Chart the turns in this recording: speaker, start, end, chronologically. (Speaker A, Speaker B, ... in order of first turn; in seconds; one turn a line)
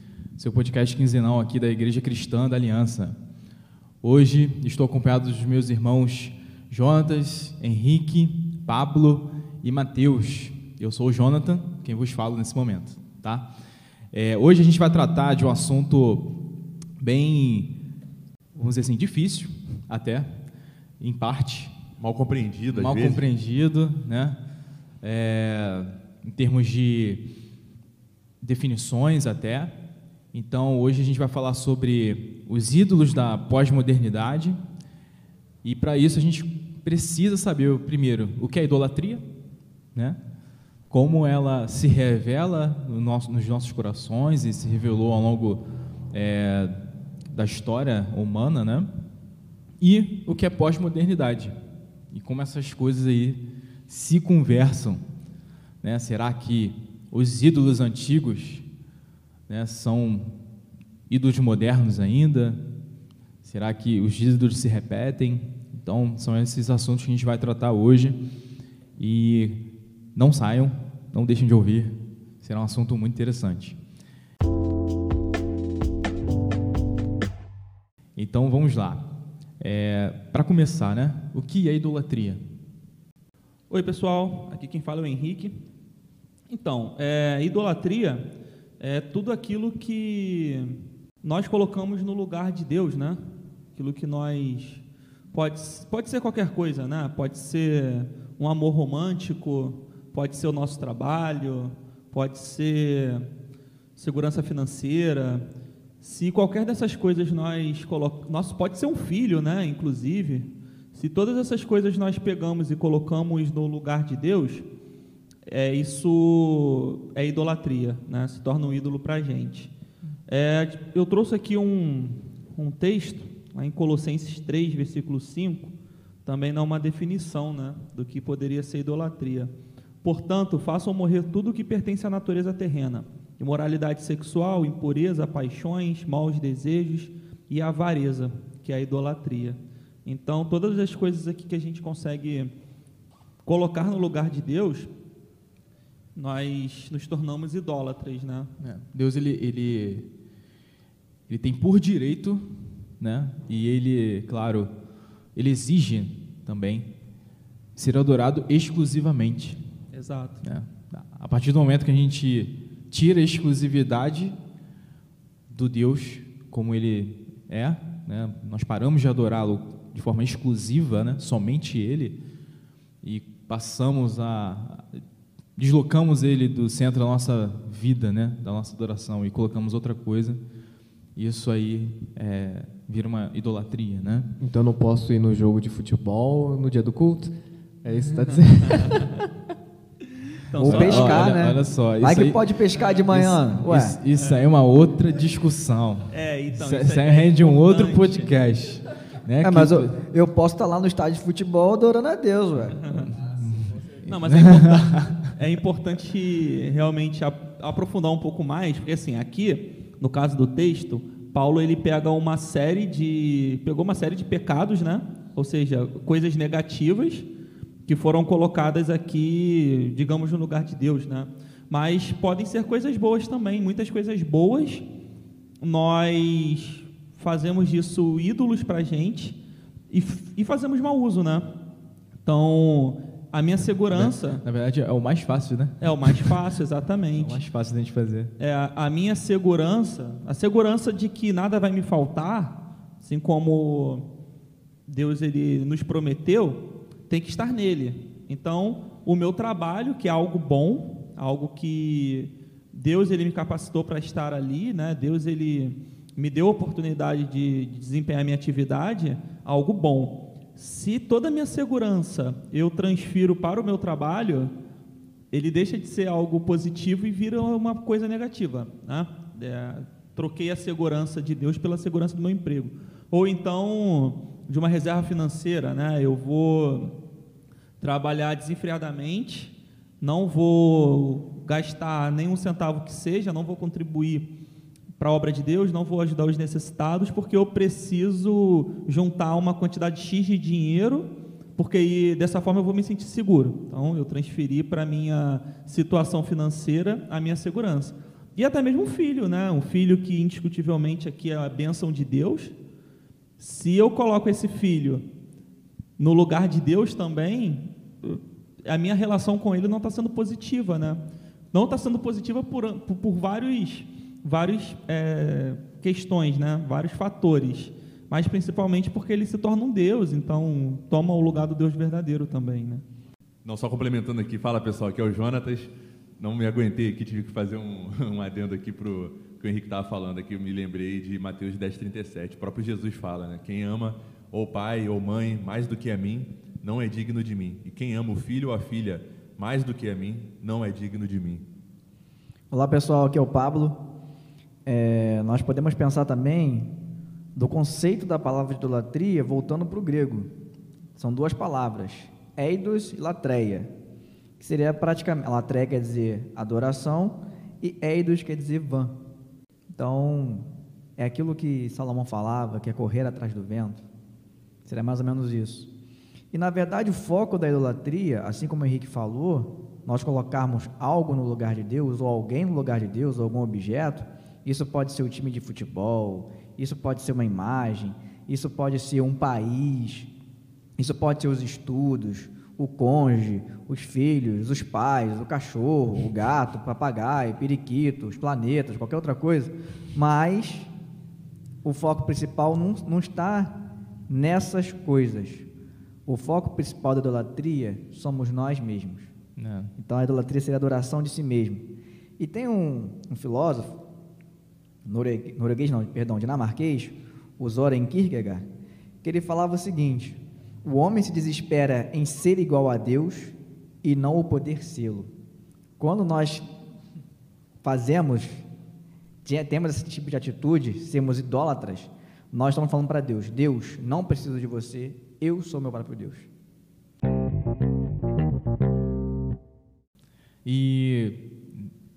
Speaker A: 0.3-3.2
Speaker A: 4.0-13.5
Speaker A: 14.1-16.4
Speaker A: 17.0-17.8
Speaker A: 18.5-20.4
Speaker A: 21.0-21.7
Speaker B: 22.0-23.2
Speaker A: 22.7-24.4
Speaker A: 25.0-27.3
Speaker A: 28.4-29.8
Speaker A: 30.3-34.6
Speaker A: 35.6-39.3
Speaker A: 39.9-40.2
Speaker A: 40.9-48.9
Speaker A: 49.8-51.5
Speaker A: 52.1-55.0
Speaker A: 55.8-58.6
Speaker A: 59.5-60.4
Speaker A: 61.1-62.6
Speaker A: 63.4-68.2
Speaker A: 69.0-73.8
Speaker A: 78.2-82.4
Speaker C: 83.7-85.6
Speaker C: 86.5-93.2
Speaker C: 93.7-103.3
Speaker C: 104.0-105.5
Speaker C: 106.0-114.7
Speaker C: 115.5-119.7
Speaker C: 120.3-125.7
Speaker C: 126.2-129.5
Speaker C: 130.0-142.5
Speaker C: 143.4-144.9
Speaker C: 146.1-148.5
Speaker A: 148.6-150.1
Speaker A: 151.3-154.7
Speaker A: 155.3-156.9
Speaker A: 157.8-159.6
Speaker C: 159.9-160.4
Speaker A: 160.4-164.4
Speaker A: 165.5-172.2
Speaker A: 173.0-175.0
Speaker A: 175.6-180.4
Speaker A: 181.2-184.3
Speaker D: 184.4-187.3
Speaker D: 187.8-189.1
Speaker A: 188.3-189.0
Speaker C: 188.3-188.9
Speaker C: 190.4-191.3
Speaker A: 190.6-199.9
Speaker E: 190.6-194.0
Speaker C: 196.1-198.3
Speaker E: 199.4-203.0
Speaker C: 202.8-203.1
Speaker A: 202.9-205.3
Speaker C: 204.0-217.3
Speaker C: 217.8-224.9
Speaker C: 225.6-229.4
Speaker C: 229.9-231.5
Speaker C: 232.2-234.4
Speaker A: 233.9-236.4
Speaker C: 235.8-237.4
Speaker A: 237.1-238.3
Speaker C: 238.4-244.1
Speaker C: 244.9-264.5
Speaker C: 265.3-276.9
Speaker C: 277.8-284.3
Speaker C: 285.0-302.5
Speaker C: 303.4-305.1
Speaker C: 306.0-322.8
Speaker B: 323.4-341.4
Speaker E: 342.5-343.8
Speaker E: 344.6-346.7
Speaker E: 347.4-350.3
Speaker E: 351.0-353.7
Speaker E: 354.4-359.0
Speaker E: 359.7-363.8
Speaker E: 364.6-365.7
Speaker E: 366.3-380.1
Speaker E: 380.8-390.7
Speaker E: 391.6-395.4
Speaker E: 396.1-399.1
Speaker A: 399.4-399.7
Speaker E: 399.8-403.8
Speaker E: 404.8-408.4
Speaker E: 409.0-415.1
Speaker E: 415.8-416.5
Speaker E: 417.6-418.4
Speaker E: 419.2-426.3
Speaker A: 430.4-431.7